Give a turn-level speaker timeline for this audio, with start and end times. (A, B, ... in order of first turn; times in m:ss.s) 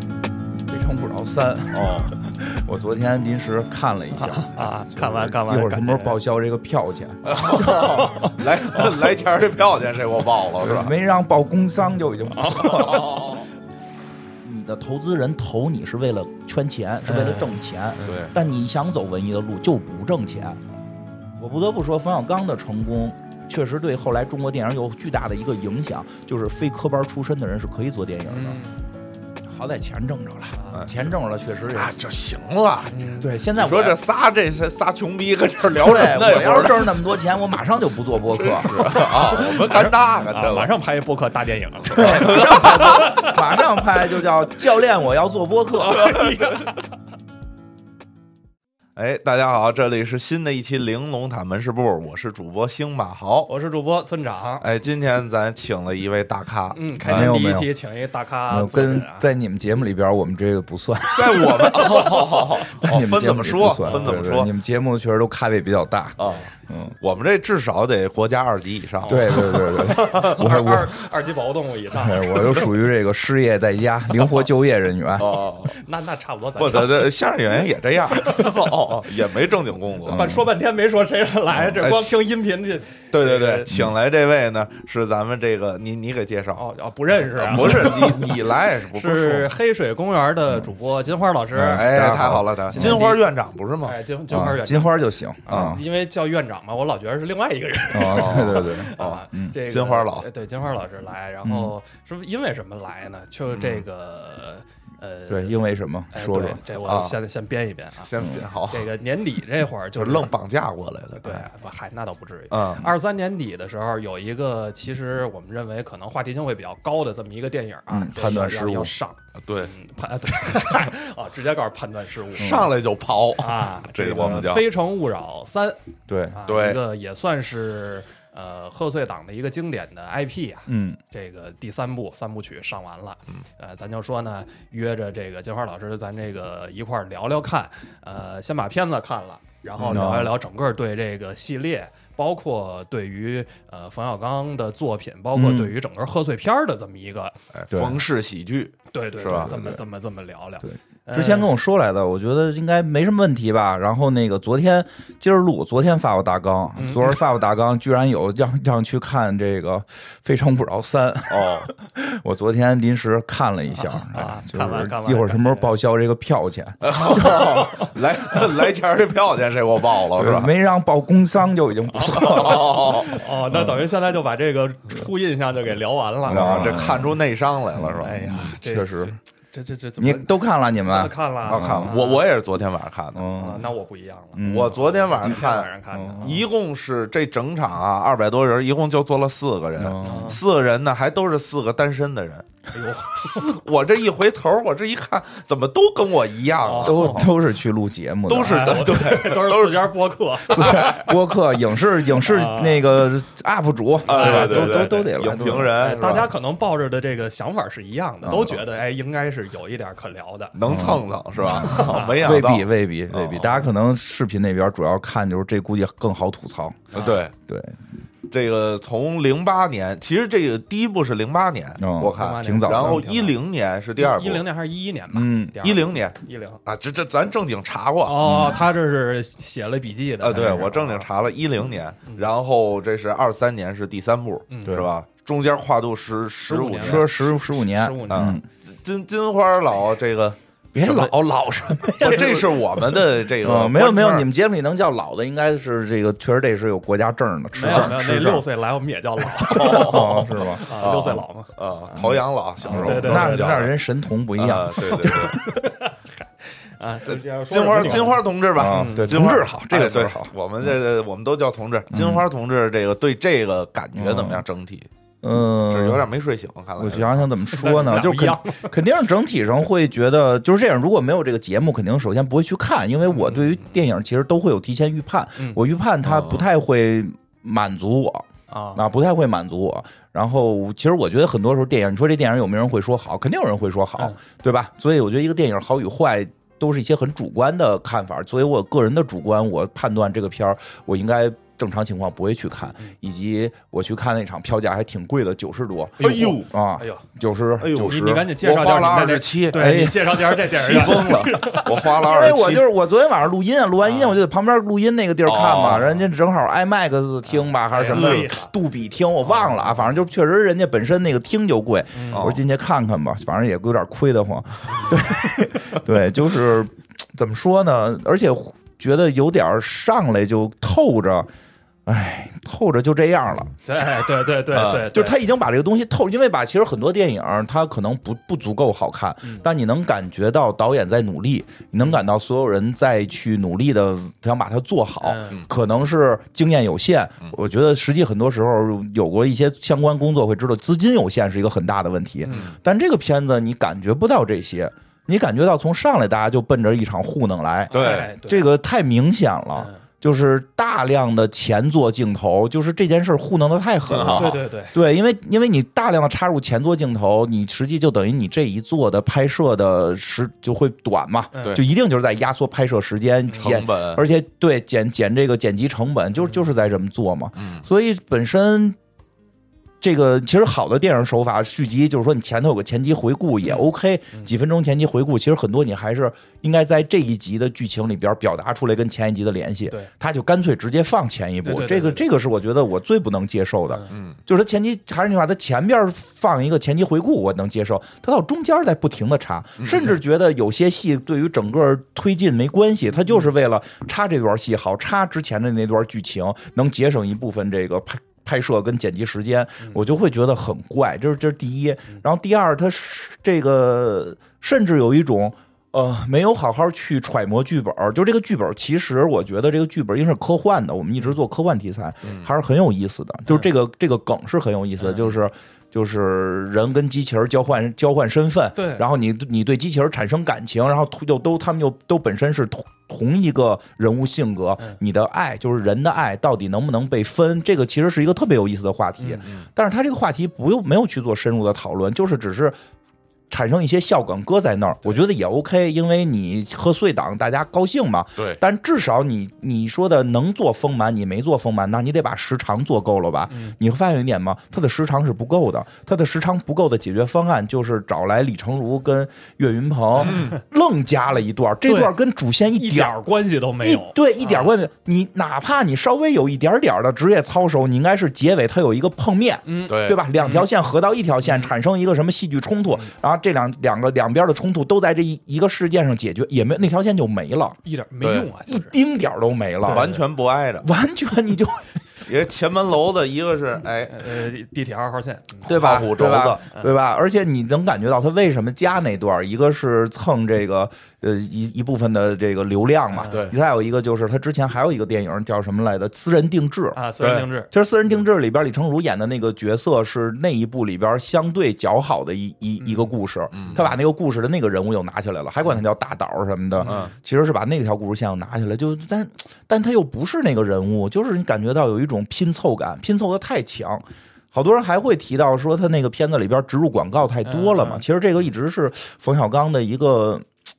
0:00.7-0:08.3 A
0:01.7-0:02.1 B
0:04.1-0:06.2 C
0:07.3-0:10.9 B
0:07.3-0:08.9 C
0:10.6-0:13.4 A
0:12.3-0:13.4 C
0:12.9-0:13.4 B
0:14.4-0:20.6 A
0:17.1-0:17.5 C
0:18.0-0:18.3 B
0:21.4-0:28.6 A
0:28.3-0:28.8 C
0:29.5-0:32.0 A
0:30.6-0:30.8 C
0:31.7-0:37.0 B
0:32.9-0:33.3 C
0:33.2-0:34.0 A
0:35.7-0:38.9 A
0:38.3-0:40.8 B
0:38.8-0:43.4 C
0:42.0-0:46.3 A
0:42.0-0:43.1 B
0:45.8-0:46.8 C
0:49.0-0:53.5 B
0:53.5-0:54.7 C
0:54.6-0:57.3 B
0:56.7-0:59.3 C
0:57.0-0:57.7 A
0:58.5-1:07.0 A
1:01.1-1:04.5 B
1:03.9-1:04.2 C
1:06.2-1:06.5 B
1:07.0-1:09.2 B
1:09.0-1:12.7 C
1:09.1-1:10.9 A
1:11.9-1:15.4 A
1:15.2-1:15.8 B
1:15.6-1:17.1 C
1:16.6-1:20.2 B
1:18.1-1:18.9 C
1:20.1-1:20.5 A
1:20.1-1:23.7 C
1:21.8-1:22.2 B
1:23.1-1:26.6 B
1:26.6-1:28.4 C
1:27.4-1:29.5 B
1:29.0-1:33.2 C
1:31.6-1:33.1 A
1:31.6-1:34.0 B
1:33.8-1:48.1 C
1:34.3-1:35.8 A
1:35.5-1:35.8 B
1:37.9-1:39.6 A
1:38.1-1:40.3 B
1:41.4-1:41.7 A
1:43.5-1:43.8 B
1:45.3-1:46.6 A
1:46.8-1:47.2 B
1:48.0-1:48.9 B
1:48.7-1:50.3 C
1:49.9-1:51.5 B
1:51.2-2:02.7 C
1:52.5-1:52.9 B
1:57.9-1:58.9 A
1:59.4-1:59.7 B
2:02.4-2:04.7 B
2:02.4-2:02.7 A
2:03.4-2:05.8 C
2:06.1-2:06.4 A
2:06.3-2:27.4 C
2:06.5-2:06.8 B
2:10.7-2:11.0 A
2:19.8-2:20.1 B
2:19.9-2:20.3 A
2:25.4-2:25.7 A
2:27.5-2:29.5 B
2:27.7-2:28.0 A
2:28.9-2:31.5 C
2:29.3-2:29.8 A
2:31.1-2:47.9 A
2:36.8-2:37.2 C
2:41.3-2:41.7 B
2:43.8-2:45.7 C
2:46.8-2:50.5 B
2:47.5-2:47.9 C
2:50.2-2:53.0 A
2:52.0-2:56.8 C
2:52.2-2:53.1 B
2:53.5-2:53.8 A
2:56.3-2:57.2 A
2:56.3-2:58.3 B
2:57.8-2:59.2 A
2:58.0-3:02.3 C
3:00.0-3:01.9 A
3:01.5-3:03.3 B
3:03.2-3:03.7 A
3:03.3-3:06.5 C
3:04.4-3:05.3 A
3:04.4-3:12.5 B
3:05.9-3:06.4 A
3:09.8-3:10.4 A
3:10.0-3:10.4 C
3:12.7-3:13.5 C
3:13.1-3:17.3 B
3:16.6-3:17.2 C
3:16.8-3:19.0 A
3:18.3-3:19.9 B
3:18.4-3:21.1 C
3:20.5-3:25.7 A
3:20.6-3:20.9 B
3:22.1-3:22.8 C
3:24.1-3:25.1 C
3:24.1-3:26.3 B
3:25.7-3:30.6 C
3:28.2-3:28.6 A
3:30.6-3:33.6 B
3:30.6-3:36.9 A
3:31.6-3:32.4 C
3:36.9-3:37.3 B
3:37.5-3:37.8 A
3:38.3-3:44.4 B
3:41.8-3:43.0 A
3:42.2-3:43.4 C
3:44.0-3:46.6 C
3:45.1-3:45.6 A
3:45.6-3:48.2 B
3:48.0-3:51.1 C
3:48.2-3:48.6 A
3:50.2-3:57.1 B
3:50.4-3:50.7 A
3:54.5-3:54.8 C
3:56.5-3:58.4 C
3:56.8-3:58.4 A
3:58.1-4:01.1 B
4:00.8-4:08.5 A
4:02.0-4:02.5 C
4:02.0-4:04.3 B
4:07.5-4:11.5 C
4:09.4-4:13.7 B
4:09.5-4:10.7 A
4:12.0-4:15.6 A
4:12.7-4:13.7 C
4:14.4-4:15.4 B
4:15.1-4:16.0 C
4:16.6-4:19.4 C
4:17.1-4:24.9 B
4:18.5-4:20.3 A
4:21.9-4:22.3 A
4:24.0-4:24.4 A
4:25.2-4:26.1 A
4:25.7-4:27.3 B
4:26.8-4:58.3 A
4:27.5-4:28.7 C
4:33.1-4:33.6 C
4:36.0-4:36.4 B
4:38.5-4:38.9 C
4:56.0-4:56.5 B
4:56.0-4:57.0 C
4:57.6-5:02.7 B
4:57.8-5:02.0 C
4:59.5-5:01.2 A
5:01.9-5:21.3 A
5:03.8-5:04.2 C
5:05.3-5:06.0 B
5:07.3-5:08.5 C
5:07.9-5:08.3 B
5:09.2-5:09.9 C
5:12.0-5:12.4 C
5:12.1-5:12.4 B
5:14.7-5:15.1 C
5:21.9-5:23.5 A
5:23.6-5:25.2 C
5:24.5-5:24.8 B
5:24.6-6:08.8 A
5:35.0-5:35.4 C
5:42.2-5:42.5 C
5:42.3-5:42.6 B
5:47.7-5:48.5 C
5:47.7-5:48.1 B
5:49.6-5:49.8 C
5:53.9-5:54.3 B
5:54.1-5:54.8 C
6:01.3-6:01.6 C
6:03.4-6:04.0 B
6:07.4-6:07.6 B
6:09.8-7:12.6 A
6:13.5-6:14.3 C
6:21.4-6:22.0 C
6:23.9-6:24.2 B
6:29.6-6:29.9 B
6:52.0-6:52.3 B
6:54.8-6:55.1 C
6:58.6-6:58.8 C
7:13.3-7:33.0 A
7:23.3-7:23.6 C
7:30.0-7:30.4 C
7:30.0-7:30.3 B
7:31.7-7:31.9 C
7:32.5-7:34.5 C
7:33.6-7:47.6 A
7:39.5-7:40.5 C
7:39.7-7:40.0 B
7:41.2-7:41.5 C
7:47.6-7:48.7 C
7:48.0-7:48.3 B
7:48.5-7:49.9 A
7:49.6-7:50.0 C
7:49.6-7:50.7 B
7:50.6-7:51.8 A
7:52.0-7:54.1 B
7:53.9-7:55.5 C
7:55.4-8:06.8 A
7:55.5-7:56.4 B
8:02.9-8:03.2 C
8:06.8-8:07.5 C
8:07.0-8:07.3 B
8:07.5-8:30.3 A
8:12.6-8:12.9 C
8:13.3-8:13.7 B
8:16.6-8:16.9 C
8:16.6-8:16.9 B
8:27.2-8:27.8 C